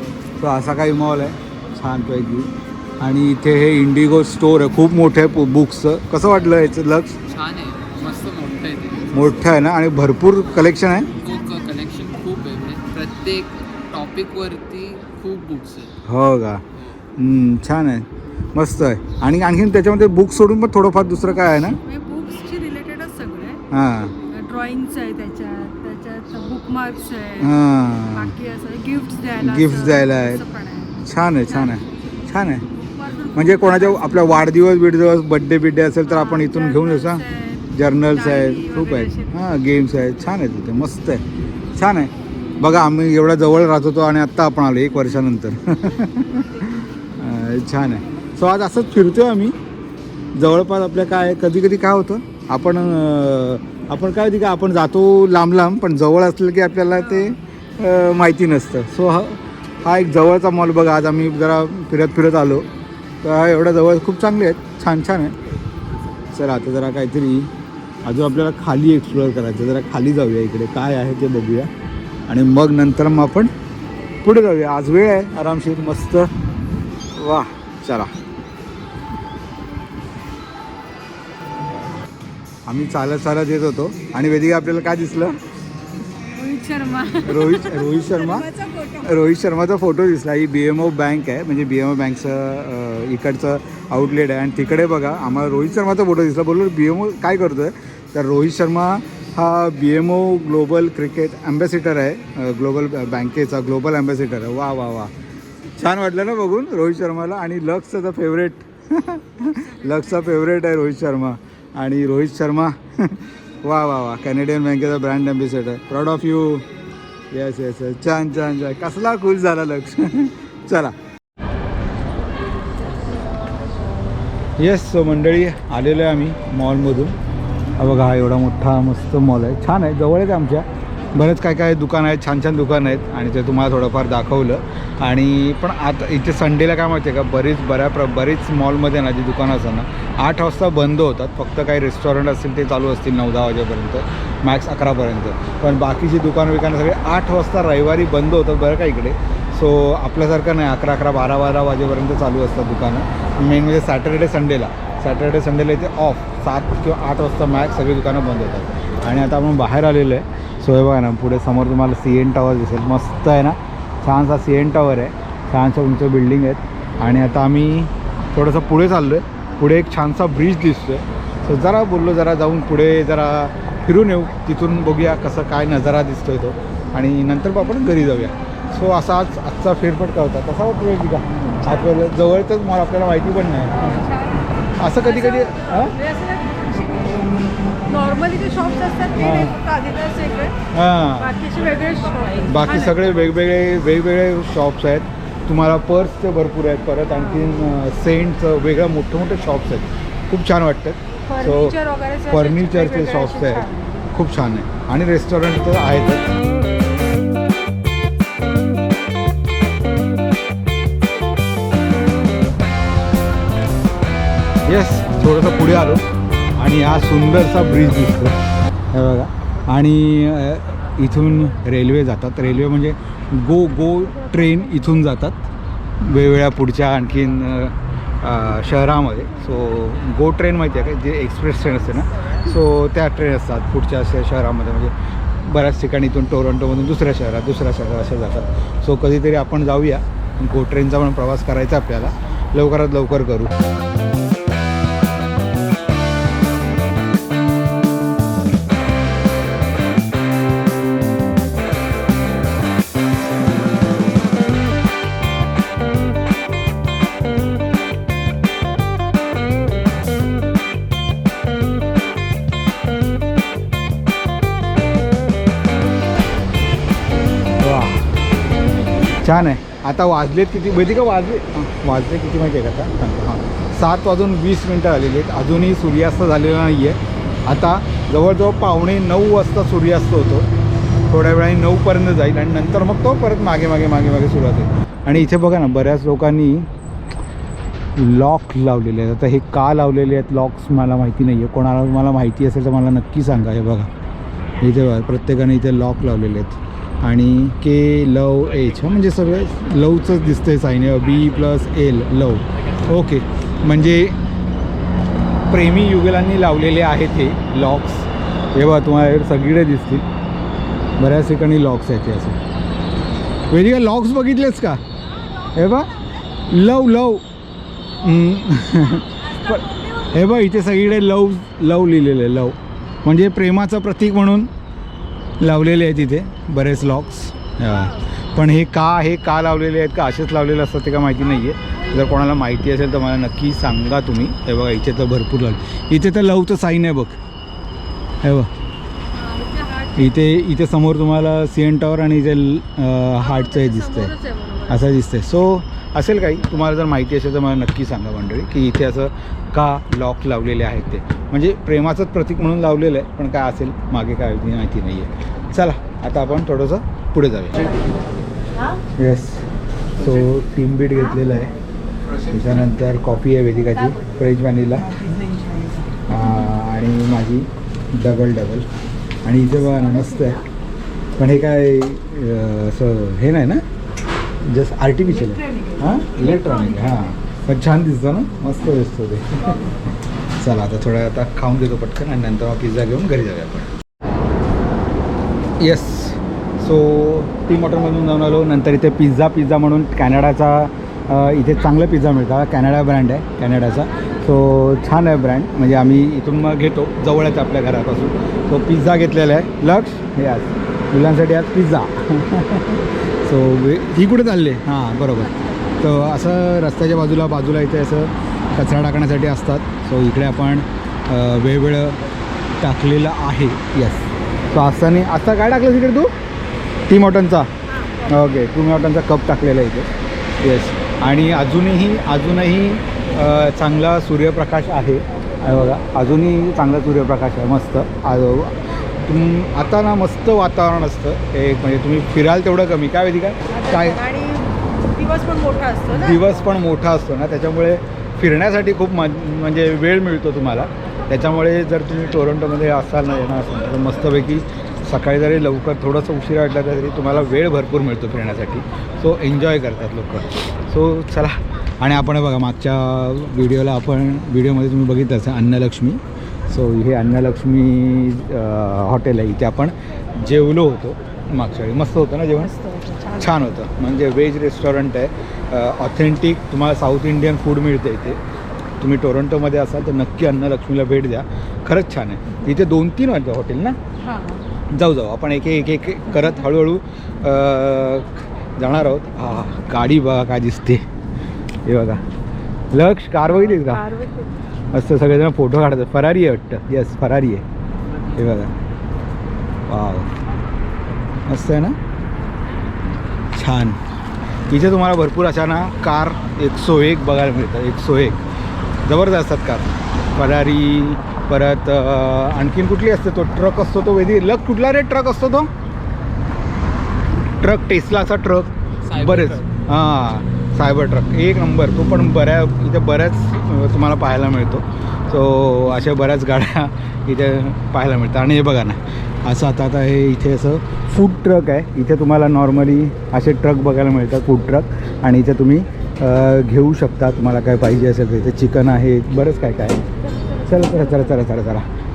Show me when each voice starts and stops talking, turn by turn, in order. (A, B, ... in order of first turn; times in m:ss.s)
0:00.4-0:07.2 A
0:07.3-0:09.3 B
0:09.1-0:11.1 A
0:11.1-0:15.9 B
0:16.0-0:16.6 A
0:17.2-0:21.8 A
0:21.8-0:23.6 C
0:23.7-0:24.1 A
0:24.2-0:27.6 C
0:27.4-0:28.3 A
0:28.1-0:31.8 C
0:29.4-0:30.4 A
0:31.0-0:32.6 A
0:32.7-0:34.2 C
0:33.3-0:41.2 A
0:36.1-0:39.3 C
0:41.7-0:49.6 A
0:50.3-1:02.7 A
1:03.2-1:05.4 A
1:06.3-1:07.5 A
1:08.0-1:11.7 A
1:12.3-1:13.5 A
1:14.2-1:16.3 A
1:17.1-1:18.1 A
1:22.6-1:25.4 A
1:26.3-1:29.2 C
1:27.2-1:28.5 A
1:29.0-1:45.1 A
1:45.8-1:56.7 A
1:57.3-2:00.9 A
2:04.6-2:07.2 A
2:07.8-3:04.0 A
3:01.6-3:01.9 C
3:03.7-3:10.5 C
3:04.8-3:06.0 A
3:09.2-3:09.6 A
3:10.7-3:11.4 A
3:11.2-3:13.2 C
3:12.4-3:21.8 A
3:17.1-3:17.4 C
3:21.3-3:24.1 C
3:22.3-3:26.4 A
3:34.6-3:36.0 A
3:36.6-3:38.4 A
3:38.9-3:45.4 A
3:46.0-4:03.5 A
4:27.6-4:28.0 A
4:29.2-4:40.4 A
4:41.1-4:46.7 A
4:48.0-4:53.9 A
4:54.6-5:04.2 A
5:05.5-5:10.0 A
5:11.0-5:12.4 A
5:13.5-5:14.8 A
5:15.5-5:15.9 A
5:16.5-5:17.2 A
5:18.0-5:24.5 A
5:25.4-5:37.2 A
5:38.2-5:38.5 A
5:39.1-5:40.2 C
5:40.0-5:44.1 A
5:43.2-5:44.8 C
5:44.7-5:57.8 A
5:59.0-5:59.4 A
6:00.0-6:01.5 A
6:02.2-6:05.1 A
6:06.1-6:08.7 A
6:09.2-6:10.4 A
6:11.2-6:13.6 A
6:14.4-6:19.6 A
6:20.4-6:23.7 A
6:25.6-6:52.0 A
6:52.6-6:56.1 A
6:56.9-6:57.5 A
6:58.0-6:59.9 A
7:00.4-7:14.0 A
7:13.5-7:16.3 C
7:15.9-7:42.6 A
7:42.5-7:43.2 C
7:43.2-7:48.2 A
7:48.8-7:53.8 A
7:54.0-7:54.4 C
7:54.7-8:00.8 A
8:01.6-8:02.0 A
8:02.7-8:03.9 A
8:03.4-8:04.3 C
8:04.7-8:07.4 A
8:08.1-8:08.5 A
8:09.7-8:10.1 A
8:11.3-8:11.8 A
8:13.3-8:13.8 A
8:14.5-8:18.2 A
8:18.8-8:25.5 A
8:27.4-8:49.8 A
8:28.8-8:29.5 B
8:50.4-8:51.7 A